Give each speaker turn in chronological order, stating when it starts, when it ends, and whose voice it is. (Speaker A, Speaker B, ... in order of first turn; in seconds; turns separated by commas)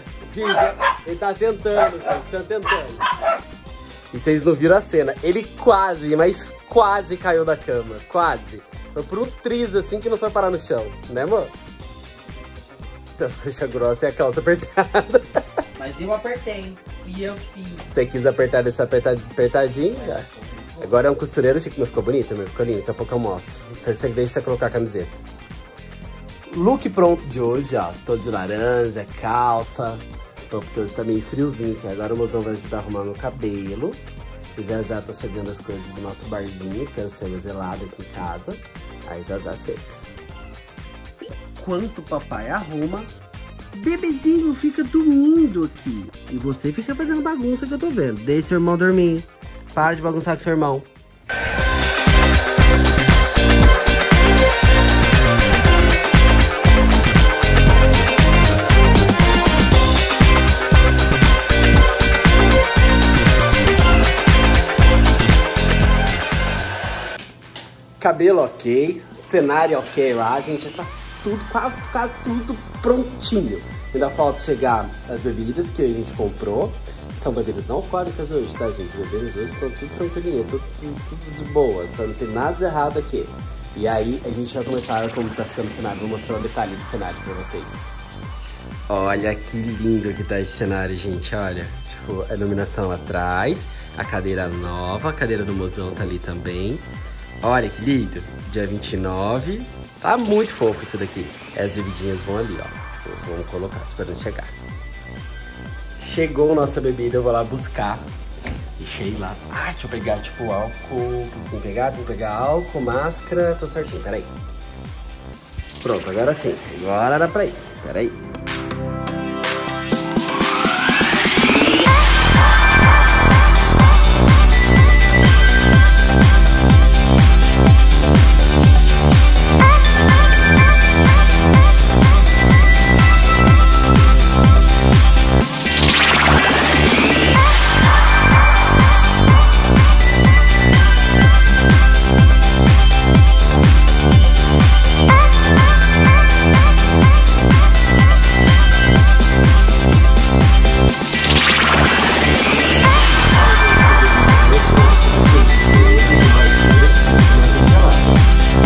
Speaker A: 0.2-3.1, Speaker A: 4.1-11.5, Speaker B: 12.2-12.9, Speaker A: 13.2-15.5, Speaker B: 15.8-17.9, Speaker A: 17.9-20.3, Speaker B: 20.1-20.8, Speaker A: 20.8-25.2, Speaker A: 26.5-34.0, Speaker A: 34.6-39.9, Speaker A: 41.2-43.1, Speaker A: 43.7-50.9, Speaker A: 68.0-87.9, Speaker A: 88.9-96.9, Speaker A: 97.4-104.5, Speaker A: 106.0-108.1, Speaker A: 108.8-114.3, Speaker A: 115.8-118.2, Speaker A: 152.5-158.2